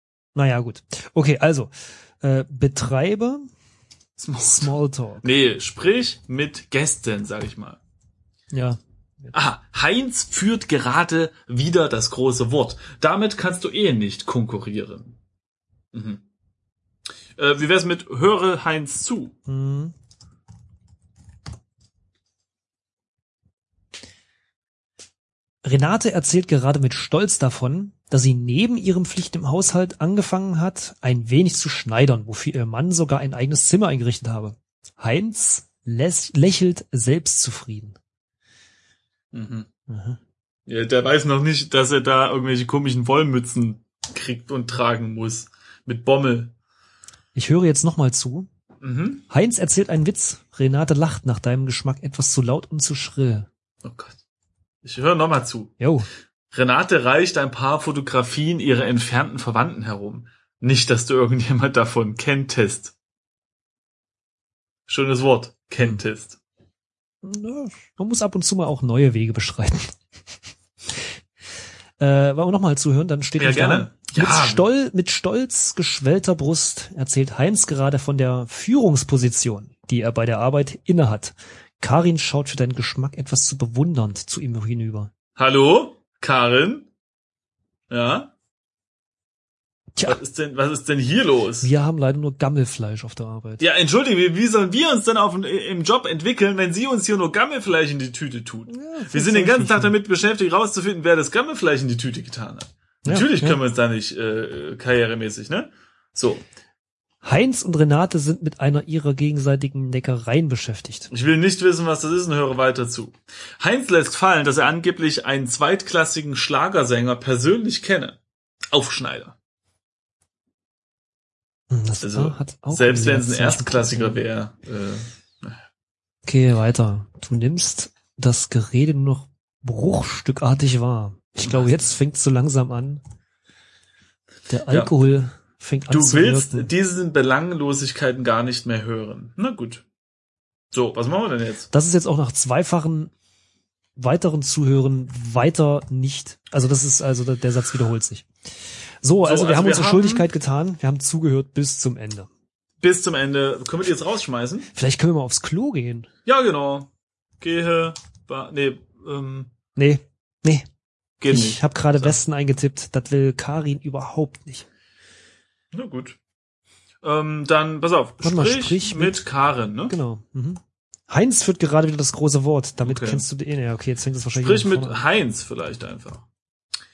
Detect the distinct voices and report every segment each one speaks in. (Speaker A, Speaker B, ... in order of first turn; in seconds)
Speaker A: 0.3-3.5, 4.4-5.3, 8.5-9.3, 19.5-19.9, 25.6-38.0, 39.9-40.2, 47.3-48.5, 49.3-53.5, 55.8-56.1, 67.2-70.0, 70.9-71.1, 72.0-85.1, 91.6-93.6, 98.7-100.0, 103.0-103.6, 107.2-111.1, 121.7-124.2, 126.2-133.0, 134.5-136.7, 141.7-143.1, 144.0-148.3, 149.0-152.3, 154.7-156.1, 159.8-160.7, 161.3-164.7, 168.2-169.2, 169.9-175.0
Speaker B: 4.2-7.8, 9.3-15.2, 15.9-16.2, 17.4-19.4, 39.3-39.7, 40.7-46.5, 48.8-49.2, 53.8-54.2, 54.8-55.8, 56.5-62.9, 64.9-66.4, 73.4-74.6, 85.4-86.9, 87.9-88.3, 90.0-91.7, 93.6-106.4, 111.1-118.2, 118.7-119.3, 122.0-125.6, 131.4-131.9, 135.9-139.8, 140.7-141.7, 149.2-150.3, 152.8-154.7, 156.2-159.5, 161.2-162.2, 165.7-166.2, 167.0-169.9, 172.8-173.2, 174.4-176.2